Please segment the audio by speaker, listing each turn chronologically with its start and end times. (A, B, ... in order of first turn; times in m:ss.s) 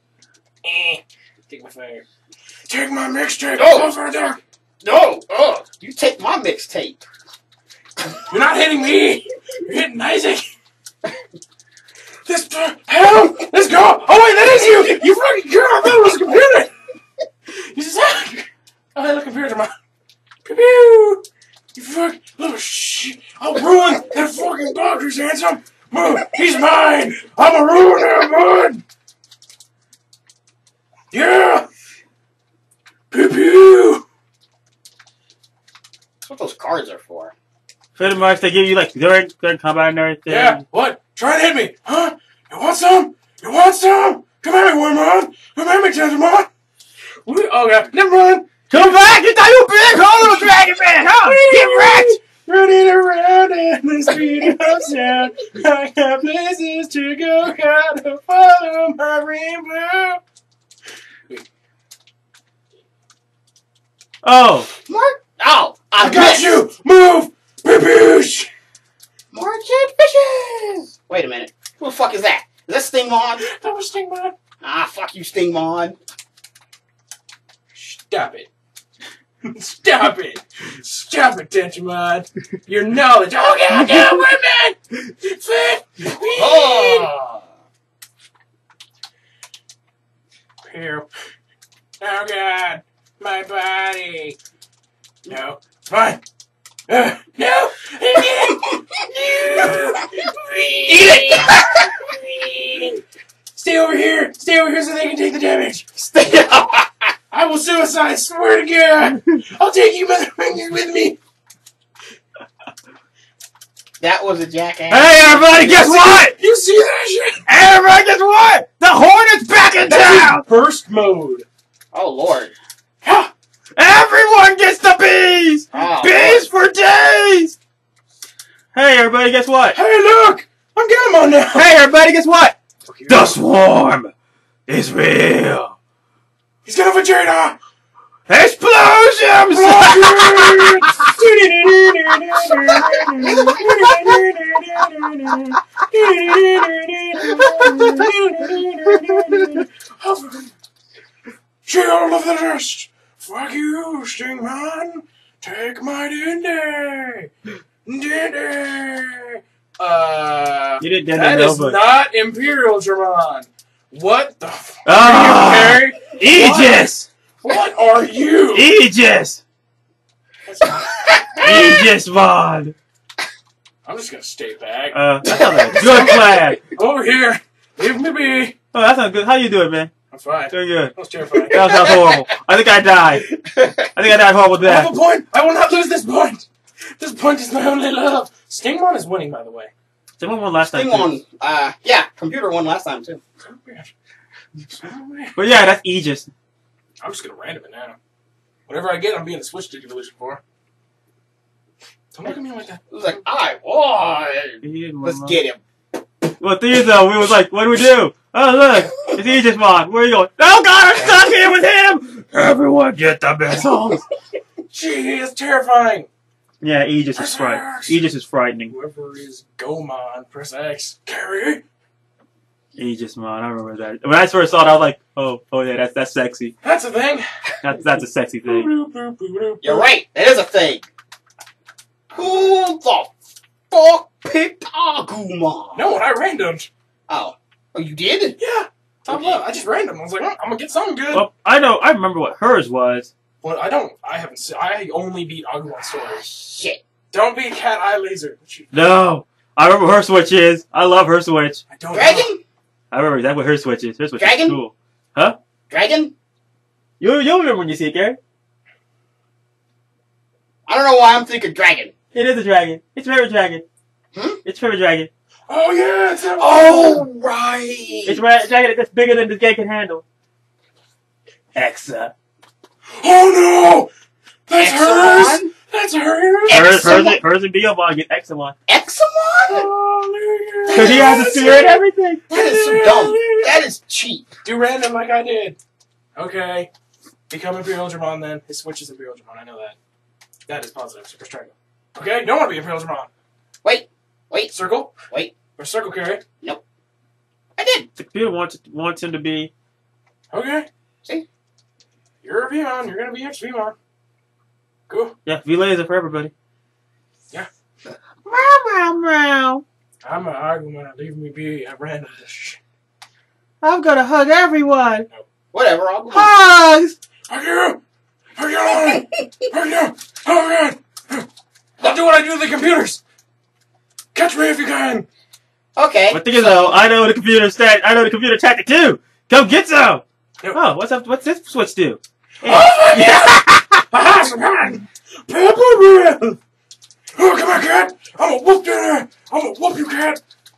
0:00.6-0:02.0 A
0:02.7-0:04.4 A
0:03.6-0:04.0 B
0:04.8-0:07.0 B
0:08.3-0:10.4 A
0:12.3-0:16.7 A
0:17.6-0:19.7 A
0:20.4-0:21.2 A
0:21.8-0:28.8 A
0:31.1-0:31.7 A
0:33.1-0:34.0 A
0:36.2-0:37.3 B
0:38.0-0:40.6 C
0:40.3-0:46.5 A
0:47.3-0:49.0 A
0:48.7-0:52.1 C
0:51.2-1:00.2 A
1:04.2-1:04.7 C
1:04.8-1:06.6 B
1:06.0-1:08.5 A
1:09.3-1:13.5 B
1:13.4-1:14.4 A
1:14.6-1:16.0 B
1:17.7-1:18.5 A
1:19.4-1:27.1 A
1:23.9-1:24.2 C
1:26.3-1:27.4 B
1:30.6-1:31.1 A
1:32.0-1:34.4 A
1:35.3-1:36.2 A
1:36.9-1:43.0 A
1:38.4-1:38.8 B
1:40.9-1:41.9 B
1:43.6-1:46.0 A
1:46.1-1:47.1 B
1:47.3-1:51.2 A
1:54.0-1:56.2 B
1:54.9-1:56.4 C
1:56.0-1:57.4 A
1:57.5-2:00.4 C
1:59.9-2:01.5 A
2:01.9-2:02.5 B
2:03.0-2:03.3 A
2:03.8-2:07.6 C
2:05.7-2:06.5 B
2:08.7-2:09.8 C
2:09.7-2:11.7 A
2:11.6-2:12.6 C
2:12.9-2:13.4 A
2:13.1-2:14.1 C
2:14.7-2:15.8 C
2:16.6-2:17.6 A
2:18.3-2:21.1 C
2:19.5-2:30.5 A
2:22.5-2:23.5 C
2:27.4-2:28.1 C
2:31.6-2:37.3 A
2:37.8-2:46.9 A
2:40.8-2:41.8 C
2:44.9-2:47.1 C
2:47.4-2:48.7 A
2:48.5-2:49.4 C
2:50.5-2:51.2 A
2:50.8-2:51.9 B
2:51.4-2:52.8 C
2:53.8-2:58.6 A
2:54.9-2:56.6 C
2:58.7-2:59.9 C
3:00.1-3:01.9 A
3:00.5-3:00.9 C
3:01.5-3:03.3 C
3:01.6-3:02.0 B
3:03.4-3:03.9 B
3:03.9-3:04.9 C
3:04.6-3:06.5 A
3:07.0-3:09.7 A
3:10.2-3:11.1 C
3:10.7-3:13.2 B
3:13.4-3:13.9 A
3:14.6-3:15.4 A
3:15.4-3:16.3 C
3:17.0-3:18.0 A
3:18.7-3:20.4 A
3:22.1-3:22.8 A
3:22.9-3:25.6 B
3:24.6-3:25.4 C
3:26.4-3:34.0 C
3:34.7-3:36.1 A
3:36.6-3:38.7 C
3:37.2-3:38.1 A
3:38.7-3:41.6 A
3:42.8-3:46.5 C
3:46.6-3:47.3 A
3:47.6-3:48.7 C
3:48.5-3:49.8 A
3:49.6-3:50.9 B
3:52.1-3:53.1 B
3:53.7-3:55.9 B
3:55.7-3:56.7 A
3:57.1-3:58.4 B
3:58.4-4:01.3 A
3:59.1-3:59.4 B
4:01.1-4:03.1 C
4:03.4-4:06.2 A
4:05.9-4:06.8 B
4:07.1-4:08.7 A
4:08.7-4:11.6 C
4:11.7-4:12.3 A
4:11.9-4:12.4 B
4:12.9-4:15.4 C
4:14.2-4:14.6 B
4:15.7-4:16.1 B
4:17.0-4:18.2 C
4:20.7-4:21.9 B
4:22.1-4:23.7 C
4:24.1-4:24.4 B
4:24.4-4:25.1 C
4:25.5-4:27.1 A
4:26.4-4:28.2 B
4:28.1-4:30.0 C
4:31.6-4:32.1 C
4:33.0-4:33.9 A
4:34.5-4:36.7 A
4:34.6-4:35.5 B
4:36.5-4:37.2 B
4:36.5-4:38.6 C
4:38.7-4:39.7 B
4:39.5-4:41.8 A
4:40.7-4:41.6 B
4:40.7-4:42.2 C
4:42.3-4:43.6 A
4:42.3-4:44.3 B
4:44.4-4:45.6 A
4:46.2-4:46.7 A
4:47.3-4:49.8 A
4:50.5-4:53.1 A
4:53.6-4:54.5 B
4:54.5-4:54.9 A
4:55.6-4:56.2 A
4:57.6-4:57.9 B
4:58.0-4:59.5 C
5:00.3-5:00.7 A
5:02.2-5:03.8 A
5:04.9-5:05.2 A
5:05.2-5:06.3 C
5:08.3-5:09.6 C
5:10.0-5:12.6 A
5:13.6-5:15.1 C
5:15.5-5:16.3 B
5:16.1-5:17.0 C
5:17.3-5:17.8 A
5:18.4-5:21.3 A
5:18.9-5:19.2 B
5:21.8-5:23.0 A
5:24.2-5:25.1 A
5:25.8-5:26.8 B
5:26.1-5:33.8 C
5:32.4-5:36.4 A
5:37.2-5:40.2 A